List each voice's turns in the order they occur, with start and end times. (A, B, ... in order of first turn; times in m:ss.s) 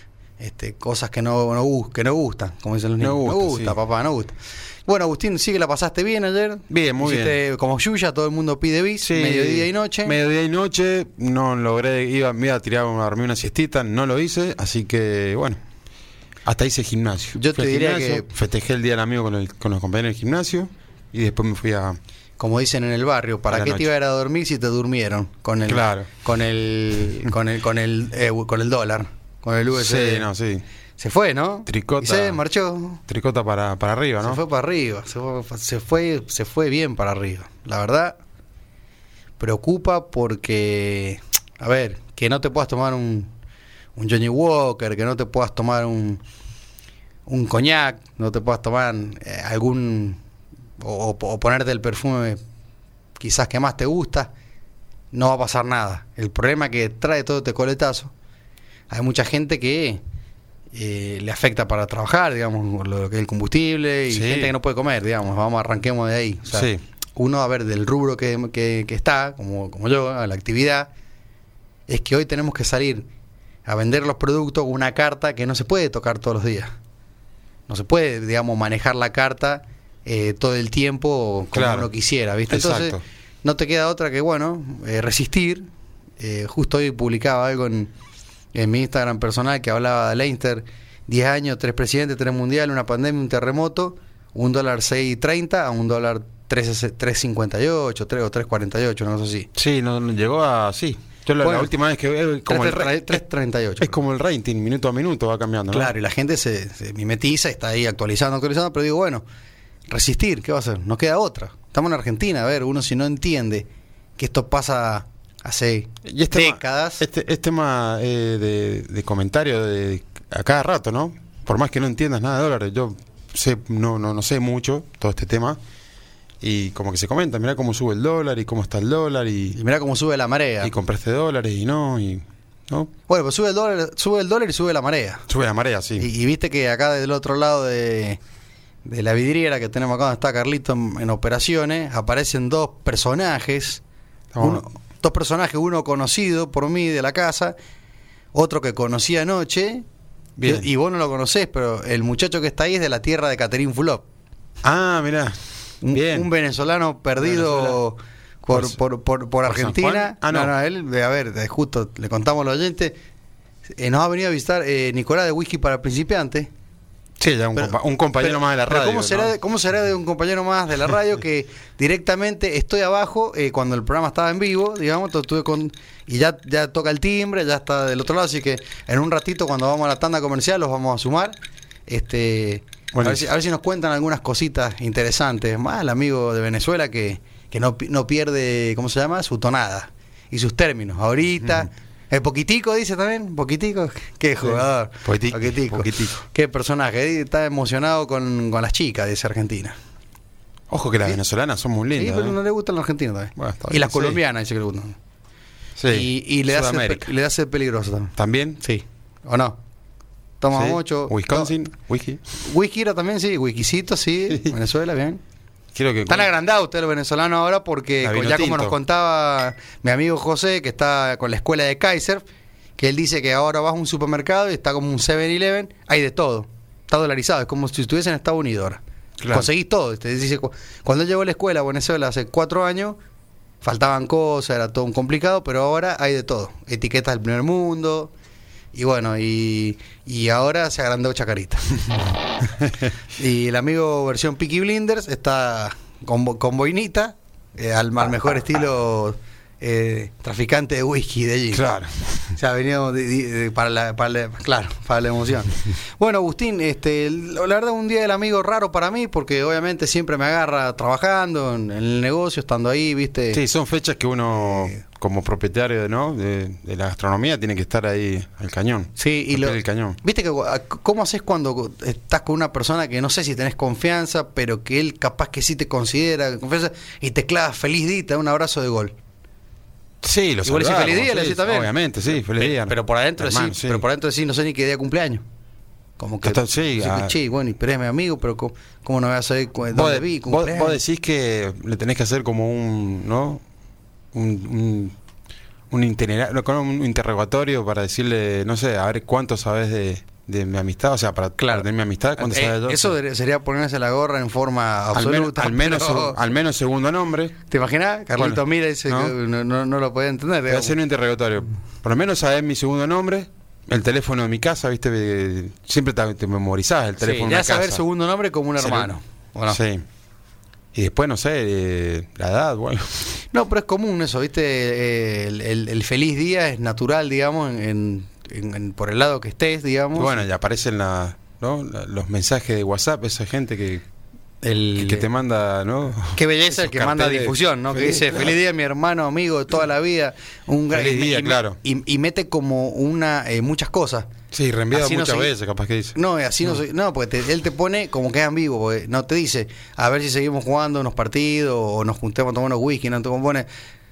0:00.4-0:10.2 A
0:03.0-0:03.7 B
0:06.7-0:07.4 B
0:09.0-0:15.6 B
0:16.4-0:22.0 B
0:17.4-0:18.3 A
0:22.4-0:30.3 A
0:23.5-0:23.9 B
0:25.7-0:26.1 B
0:29.7-0:30.6 B
0:31.0-0:33.0 A
0:31.7-0:32.4 B
0:33.1-0:34.4 B
0:34.2-0:38.2 A
0:39.4-0:43.3 A
0:44.0-0:46.2 A
0:47.3-0:50.2 A
0:50.8-0:52.4 A
0:53.2-0:54.3 A
0:55.1-0:58.1 A
0:58.9-1:00.0 A
1:00.7-1:10.9 A
1:04.1-1:04.5 B
1:06.5-1:06.8 B
1:11.9-1:13.1 A
1:13.6-1:16.7 A
1:17.7-1:25.7 A
1:21.5-1:21.9 B
1:22.5-1:23.0 B
1:26.2-1:27.9 A
1:28.5-1:39.5 A
1:39.5-1:43.2 B
1:41.4-1:41.7 A
1:42.5-1:44.0 A
1:43.8-1:45.9 B
1:45.7-1:49.2 A
1:49.9-1:57.0 A
1:56.0-2:05.6 B
2:06.4-2:09.6 B
2:09.5-2:10.7 A
2:10.6-2:12.9 B
2:13.1-2:15.2 A
2:15.3-2:16.1 B
2:16.0-2:18.2 A
2:18.8-2:23.8 A
2:24.3-2:24.6 B
2:24.4-2:27.5 A
2:28.3-2:29.8 A
2:30.4-2:30.7 B
2:30.4-2:34.0 A
2:34.6-2:35.4 B
2:35.8-2:43.0 A
2:35.9-2:36.3 B
2:37.2-2:37.8 B
2:38.5-2:38.8 B
2:39.4-2:40.5 B
2:43.8-2:46.5 A
2:47.2-2:49.3 B
2:47.6-3:01.4 A
3:01.9-3:19.8 A
3:02.9-3:03.2 B
3:14.4-3:16.2 B
3:20.7-3:22.4 B
3:22.0-3:25.0 A
3:23.4-3:24.2 B
3:25.8-3:27.1 B
3:25.9-3:29.6 A
3:28.2-3:28.6 B
3:30.4-3:31.5 A
3:30.5-3:32.2 B
3:32.4-3:35.2 A
3:35.7-3:36.3 B
3:36.1-3:42.2 A
3:38.0-3:38.8 B
3:42.8-3:53.0 A
3:49.2-3:49.5 B
3:53.6-3:58.1 A
3:58.7-4:02.0 A
4:03.1-4:11.7 A
4:11.5-4:12.3 B
4:12.3-4:23.4 A
4:23.3-4:30.0 B
4:29.0-4:38.9 A
4:40.0-4:43.8 B
4:40.4-4:45.2 A
4:46.0-4:50.8 A
4:46.2-4:47.2 B
4:49.7-4:53.4 B
4:54.1-4:54.9 B
4:55.7-5:02.9 B
5:01.4-5:06.2 A
5:04.9-5:07.4 B
5:07.5-5:10.8 A
5:08.2-5:09.1 B
5:10.5-5:17.8 B
5:17.0-5:19.6 A
5:18.6-5:18.9 B
5:19.5-5:19.8 B
5:20.7-5:23.2 B
5:23.3-5:30.2 A
5:29.9-5:33.8 B
5:34.4-5:35.1 A
5:34.8-5:38.3 B
5:36.1-5:44.1 A
5:40.7-5:41.6 B
5:44.3-5:46.0 B
5:44.7-5:45.3 A
5:45.9-5:53.5 A